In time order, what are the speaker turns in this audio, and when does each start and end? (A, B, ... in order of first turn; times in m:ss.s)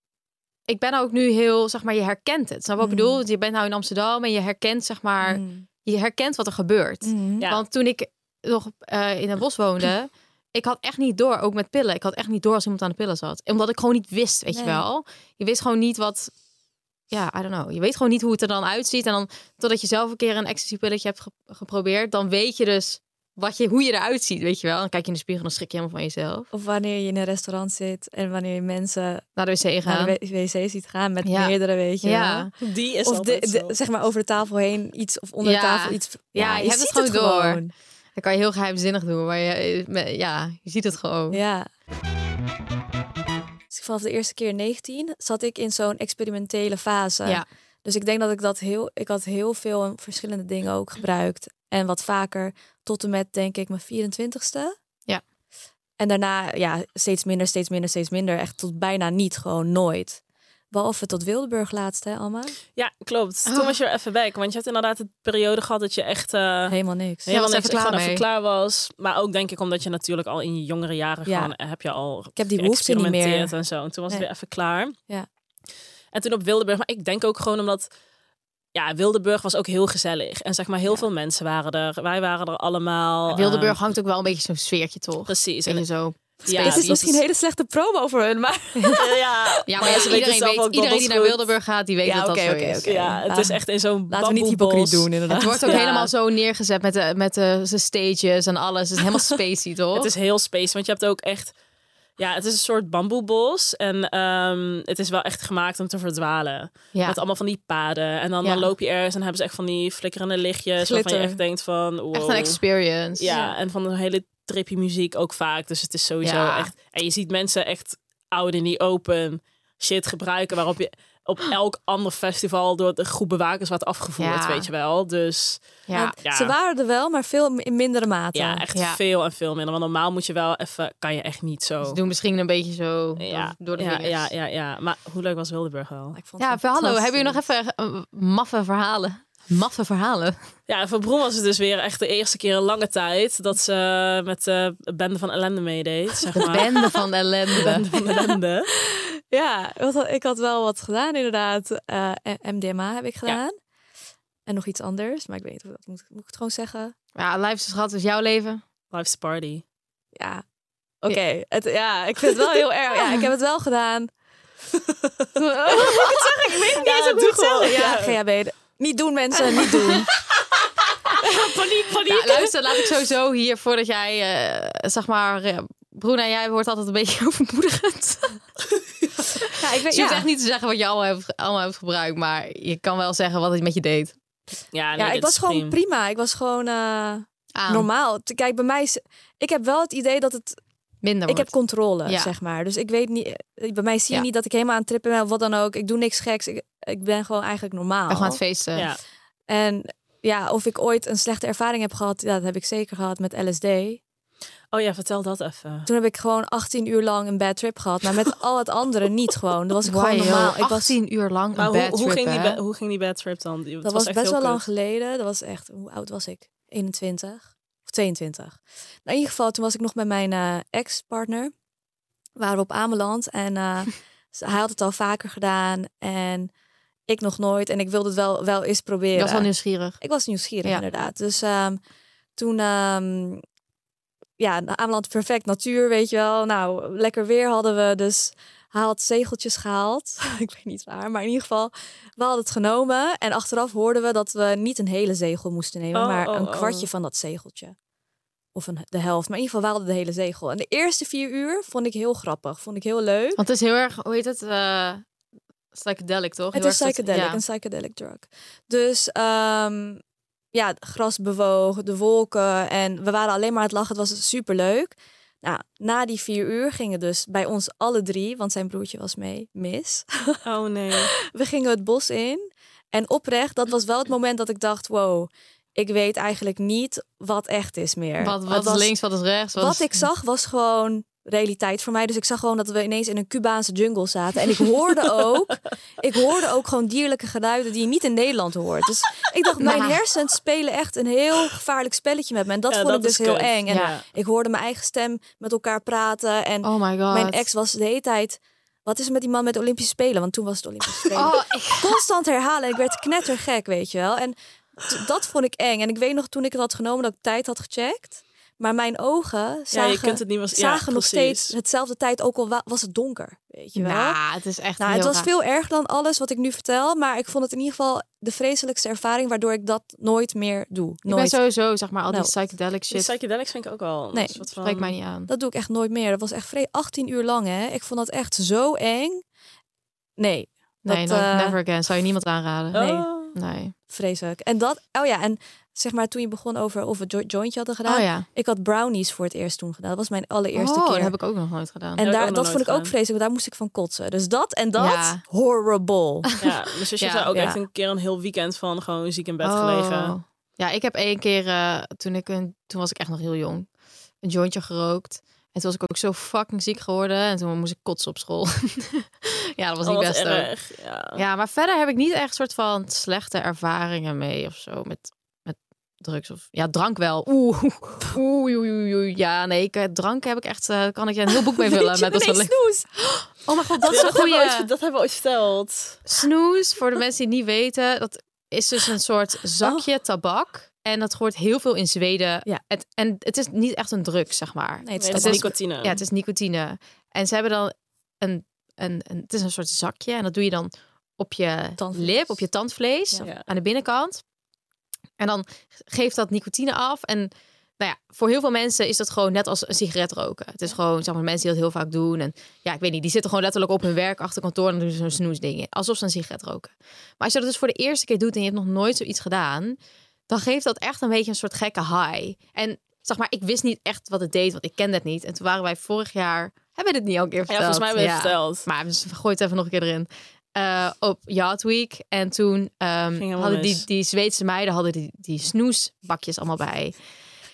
0:00.7-0:16.3 A
0:02.8-0:03.2 B
0:05.2-0:05.6 B
0:07.0-0:07.4 B
0:14.5-0:14.8 B
0:17.1-0:26.5 A
0:26.5-0:29.2 B
0:29.4-0:30.2 A
0:29.8-0:32.5 B
0:31.2-0:32.5 A
0:32.6-0:33.8 C
0:33.0-0:37.7 B
0:35.4-0:37.6 A
0:38.2-0:41.4 A
0:41.3-0:41.7 B
0:43.7-0:54.7 B
0:56.0-1:02.6 B
1:02.7-1:06.7 C
1:03.5-1:03.8 A
1:06.7-1:07.3 B
1:07.2-1:14.9 C
1:07.3-1:08.2 A
1:11.2-1:11.5 B
1:12.4-1:13.5 B
1:16.1-1:17.9 C
1:18.7-1:23.8 C
1:23.3-1:27.2 A
1:25.3-1:25.8 C
1:26.4-1:26.9 C
1:26.5-1:29.1 B
1:28.9-1:31.4 C
1:29.7-1:33.0 A
1:29.8-1:30.1 B
1:32.0-1:35.8 B
1:32.8-1:36.1 C
1:35.3-1:40.1 A
1:39.9-1:41.5 C
1:42.2-1:52.6 C
1:46.9-1:47.2 A
1:48.4-1:48.7 A
1:50.8-1:51.4 B
1:52.1-1:53.3 A
1:53.2-2:05.6 C
1:53.2-1:53.5 B
1:56.2-1:56.7 A
2:04.2-2:04.7 A
2:05.9-2:06.1 A
2:05.9-2:08.6 B
2:06.2-2:06.5 C
2:08.3-2:12.0 C
2:08.7-2:09.0 A
2:11.8-2:14.3 A
2:13.2-2:16.2 C
2:16.1-2:17.4 B
2:16.4-2:20.4 A
2:20.7-2:26.8 C
2:26.4-2:27.8 A
2:27.5-2:28.7 C
2:28.7-2:33.6 B
2:34.4-2:36.9 B
2:37.2-2:38.6 A
2:38.9-2:39.6 C
2:40.2-2:40.4 B
2:41.0-2:44.1 B
2:44.8-2:45.2 C
2:45.3-2:50.1 B
2:45.8-2:48.2 C
2:51.2-2:52.4 C
2:51.4-2:52.3 B
2:52.0-2:58.4 A
2:59.5-3:00.3 B
2:59.9-3:04.1 A
3:04.7-3:05.7 C
3:05.0-3:10.6 B
3:07.5-3:07.9 A
3:11.0-3:11.5 A
3:11.3-3:18.4 B
3:12.0-3:12.3 A
3:18.1-3:18.9 A
3:19.5-3:24.0 B
3:24.7-3:25.9 C
3:25.8-3:30.9 B
3:29.8-3:32.6 A
3:31.5-3:34.6 C
3:33.8-3:41.5 B
3:42.4-3:46.5 B
3:47.1-3:49.5 B
3:49.1-3:50.0 A
3:50.0-3:51.8 B
3:52.4-3:53.4 B
3:54.4-4:07.7 B
4:05.9-4:06.9 C
4:08.5-4:13.4 B
4:13.4-4:15.0 A
4:15.7-4:17.4 A
4:16.5-4:20.0 B
4:20.5-4:30.4 B
4:30.4-4:31.1 C
4:31.3-4:38.9 B
4:38.2-4:40.0 A
4:39.6-5:14.2 B
4:49.6-4:50.0 A
4:52.7-4:54.0 C
4:53.7-4:53.9 A
4:56.6-4:57.5 A
5:01.1-5:02.0 A
5:09.7-5:11.6 C
5:13.7-5:15.3 A
5:14.8-5:21.4 B
5:21.1-5:23.1 A
5:22.9-5:24.9 C
5:24.1-5:24.4 B
5:24.6-5:25.3 A
5:25.3-5:29.2 B
5:30.2-5:31.6 B
5:30.8-5:33.7 A
5:32.7-5:33.3 C
5:32.7-5:33.1 B
5:33.9-5:41.1 B
5:37.9-5:38.3 A
5:40.5-5:42.0 A
5:42.0-5:46.3 B
5:42.0-5:42.9 C
5:44.8-5:45.2 A
5:46.4-5:50.1 C
5:47.0-5:47.3 A
5:47.3-5:47.6 B
5:49.4-5:53.7 A
5:54.2-6:00.5 A
5:59.8-6:01.2 C
6:01.2-6:12.6 A
6:11.6-6:13.2 B
6:13.4-6:14.7 A
6:13.8-6:16.0 C
6:16.1-6:34.2 A
6:24.8-6:25.5 B
6:25.0-6:26.0 C
6:31.8-6:32.4 B
6:35.2-6:49.8 A
6:50.3-7:07.0 A
6:57.5-6:58.7 C
7:03.2-7:03.8 C